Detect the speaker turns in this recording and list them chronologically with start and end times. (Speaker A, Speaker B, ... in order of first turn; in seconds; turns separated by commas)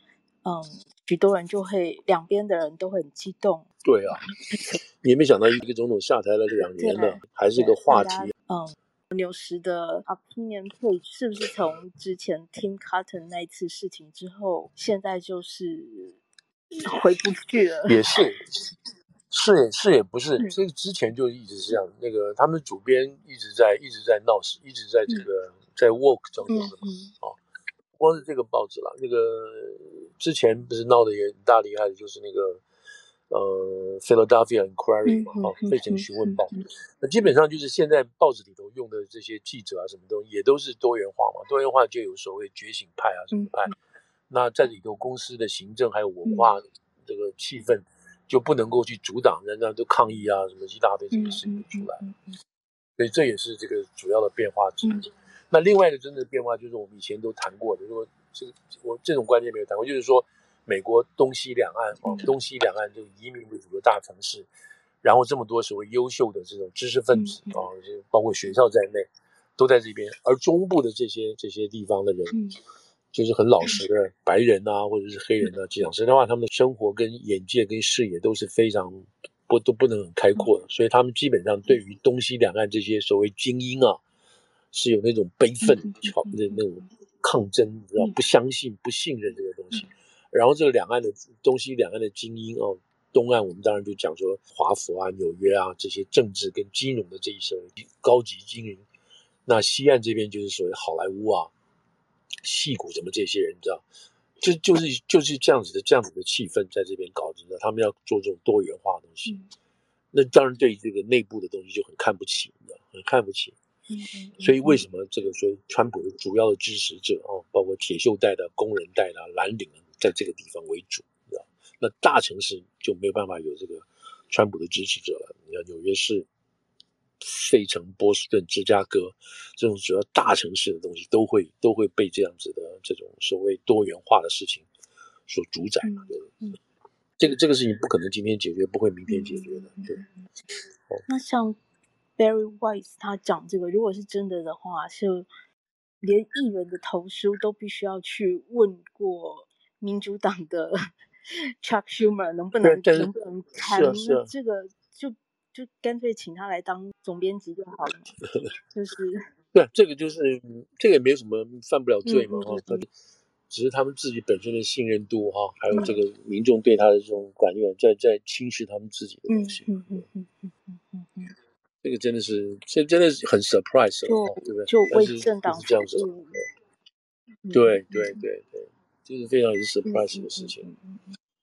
Speaker A: 0.4-3.7, Speaker B: 3.8-4.3, Speaker B: 5.0-8.3, Speaker A: 6.7-16.2, Speaker A: 16.7-18.0, Speaker B: 17.9-18.6, Speaker B: 19.3-27.4, Speaker A: 26.5-27.1, Speaker B: 28.0-32.6, Speaker B: 33.3-43.7, Speaker A: 35.1-36.5, Speaker A: 43.3-43.7, Speaker B: 44.3-52.0, Speaker A: 46.2-46.5, Speaker A: 51.1-52.2, Speaker B: 53.0-64.5, Speaker A: 62.0-62.3, Speaker B: 65.0-69.1, Speaker A: 67.1-67.6, Speaker B: 69.6-72.4, Speaker A: 72.3-72.6, Speaker B: 73.1-84.0, Speaker B: 84.7-98.8, Speaker A: 85.6-86.6, Speaker B: 99.5-101.5, Speaker B: 102.4-103.8, Speaker B: 104.4-109.4, Speaker B: 110.1-113.6, Speaker A: 113.9-114.8, Speaker B: 114.4-126.3, Speaker B: 127.2-134.7, Speaker B: 135.3-136.3, Speaker A: 135.8-136.6, Speaker B: 137.2-140.0, Speaker A: 139.1-140.0, Speaker A: 141.1-141.6, Speaker A: 142.2-145.3, Speaker A: 146.0-158.2, Speaker B: 152.6-154.3, Speaker A: 158.7-159.2, Speaker B: 159.5-162.9, Speaker A: 162.1-162.8, Speaker B: 163.5-170.1, Speaker A: 169.3-171.3, Speaker B: 171.8-176.4, Speaker A: 174.1-176.3, Speaker A: 177.4-178.2, Speaker B: 177.5-180.7, Speaker A: 179.8-181.2